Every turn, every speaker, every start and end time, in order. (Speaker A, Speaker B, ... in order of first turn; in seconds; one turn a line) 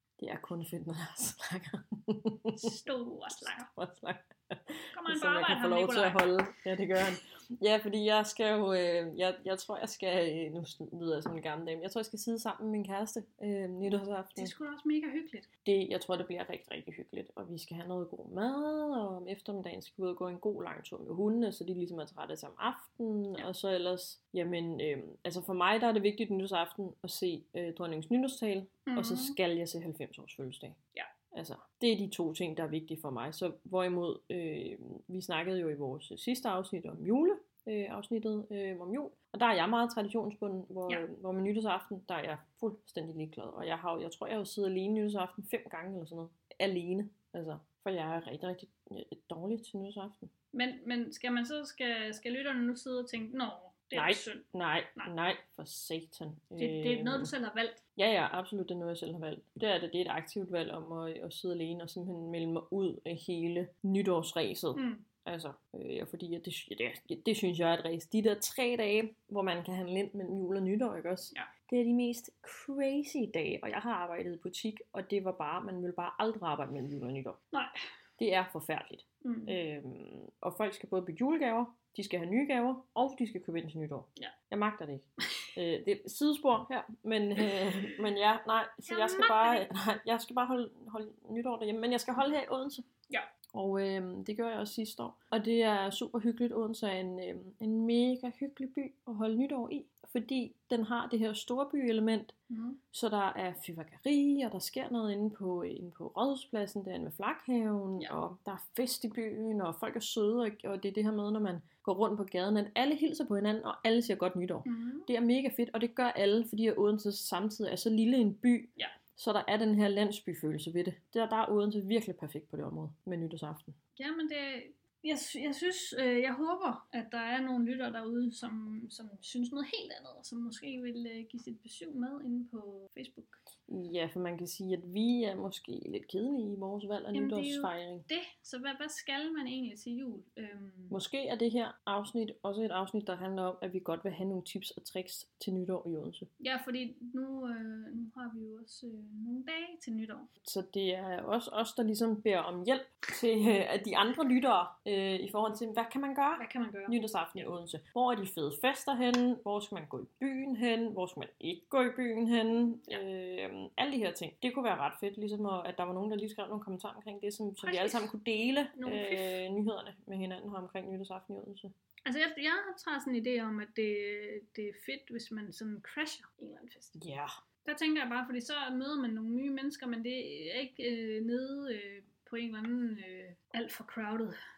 Speaker A: 0.2-2.7
Speaker B: 2.5-3.7
Speaker A: 3.4-14.5
Speaker B: 4.9-6.3
Speaker B: 14.4-15.5
Speaker A: 15.6-30.8
Speaker B: 28.9-29.4
Speaker A: 31.3-50.3
Speaker B: 50.5-55.1
Speaker A: 53.9-57.3
Speaker B: 56.6-57.8
Speaker A: 58.0-77.4
Speaker B: 64.7-65.0
Speaker A: 78.2-92.8
Speaker B: 79.2-79.6
Speaker B: 88.9-89.7
Speaker A: 93.5-102.3
Speaker B: 102.5-102.8
Speaker A: 102.9-123.8
Speaker B: 114.6-115.1
Speaker B: 124.0-133.4
Speaker A: 133.7-138.1
Speaker B: 137.1-141.0
Speaker A: 140.9-146.3
Speaker B: 146.4-150.3
Speaker A: 150.4-171.7
Speaker B: 156.4-157.0
Speaker B: 167.6-168.1
Speaker B: 168.7-169.4
Speaker B: 172.1-176.9
Speaker A: 176.9-177.3
Speaker B: 177.6-184.3